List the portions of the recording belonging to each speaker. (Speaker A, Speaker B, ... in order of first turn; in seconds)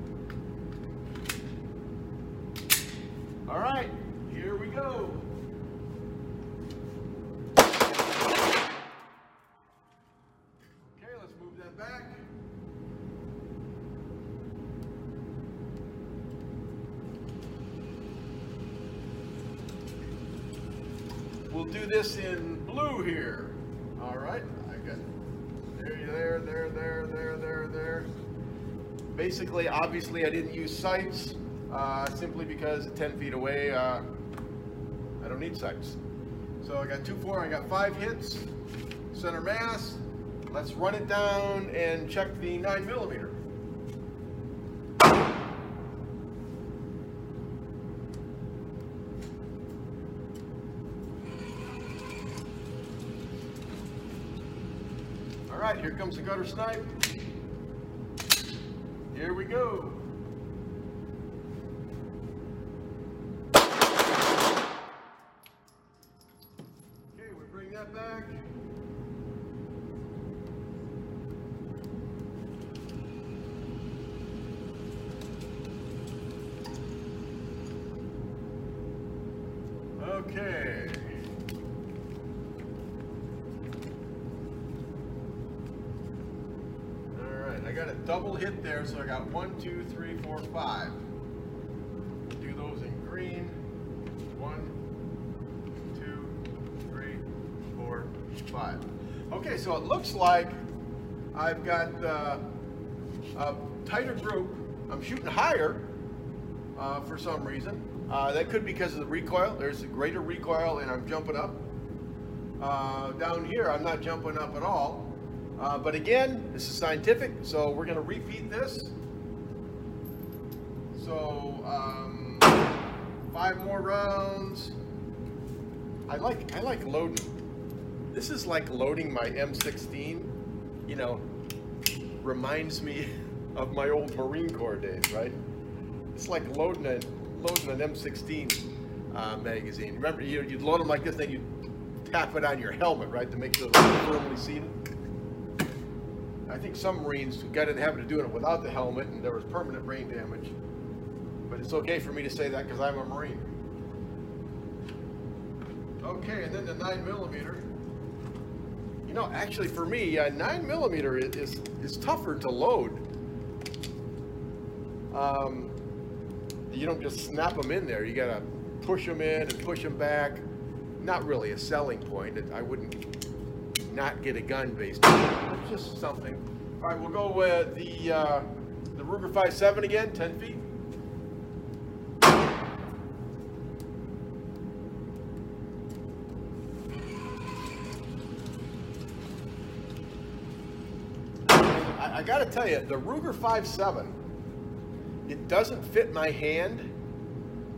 Speaker A: 3.5-5.3, 10.8-12.3, 21.5-25.0, 25.7-28.1, 29.1-34.0, 35.2-36.0, 36.6-38.5, 39.1-43.4, 55.5-57.0, 59.1-60.1, 67.1-68.5, 80.0-81.2, 87.1-91.0, 92.3-93.6, 94.3-94.8, 95.9-100.6, 101.3-102.5, 103.3-105.9, 106.7-111.7, 112.6-118.9, 120.9-122.5, 123.3-124.7, 126.1-127.3, 128.1-130.3, 130.8-131.2, 132.2-135.4, 136.1-141.5, 142.0-144.8, 146.5-150.6, 151.5-153.5, 156.0-157.7, 159.0-163.1, 165.1-165.7, 166.7-170.4, 171.0-173.0, 173.9-180.6, 191.5-194.2, 195.2-196.9